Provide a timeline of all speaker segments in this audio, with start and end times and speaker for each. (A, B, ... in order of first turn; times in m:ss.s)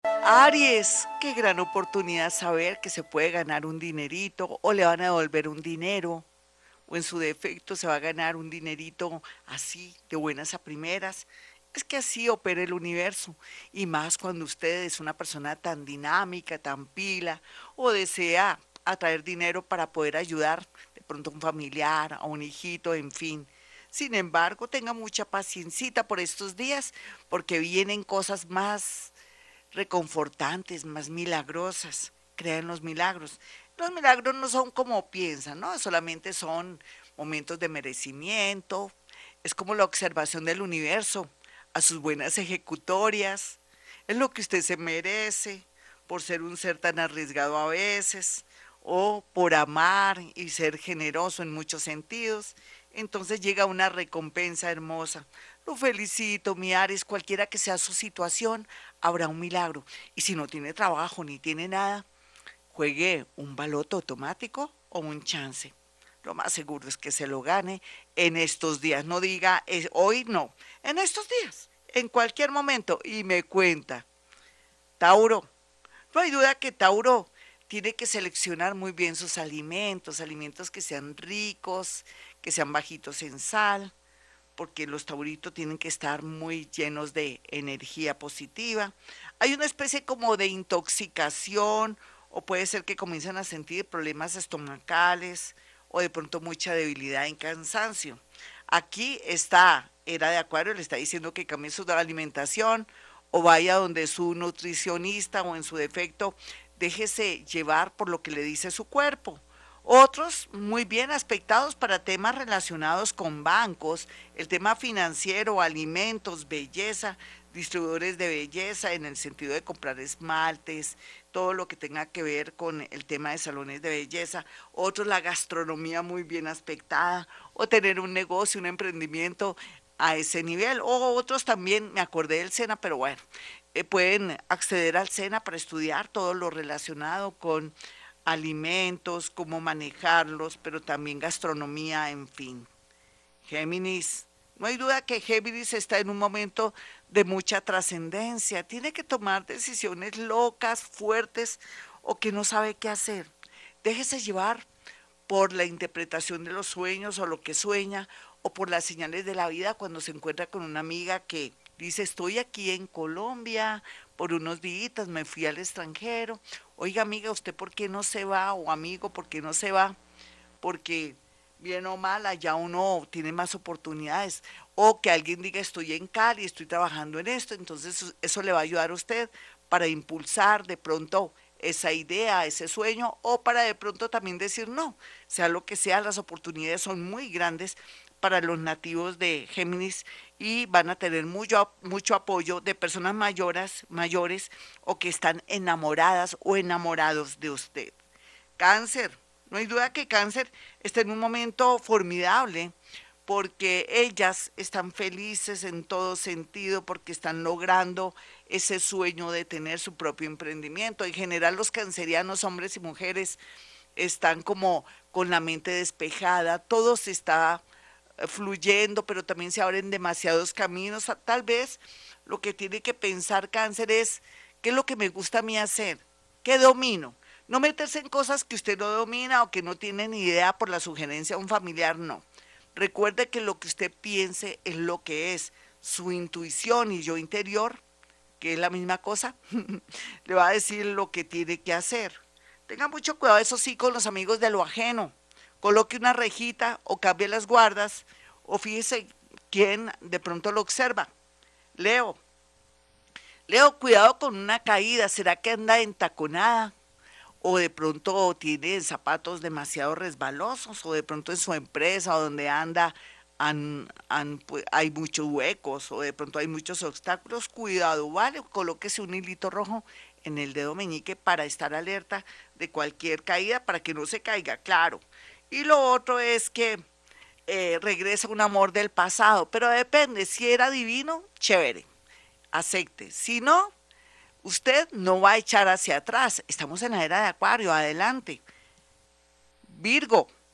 0:00.2-0:06.3 A
0:06.9-0:29.1 A
0:29.7-1:02.1 A
1:02.7-1:14.1 A
1:15.0-1:15.5 A
1:16.1-1:23.9 A
1:24.6-2:13.2 A
2:13.7-2:17.8 A
2:18.3-2:22.7 A
2:23.4-2:33.3 A
2:33.8-2:34.7 A
2:35.3-2:50.0 A
2:50.6-3:18.0 A
3:18.6-3:22.8 A
3:23.3-3:33.4 A
3:34.0-3:37.6 A
3:38.2-3:57.8 A
3:58.4-4:11.1 A
4:11.8-4:12.2 A
4:13.5-4:16.7 A
4:17.4-4:36.8 A
4:37.5-4:41.9 A
4:42.5-4:43.7 A
4:44.4-4:48.4 A
4:49.6-4:50.3 A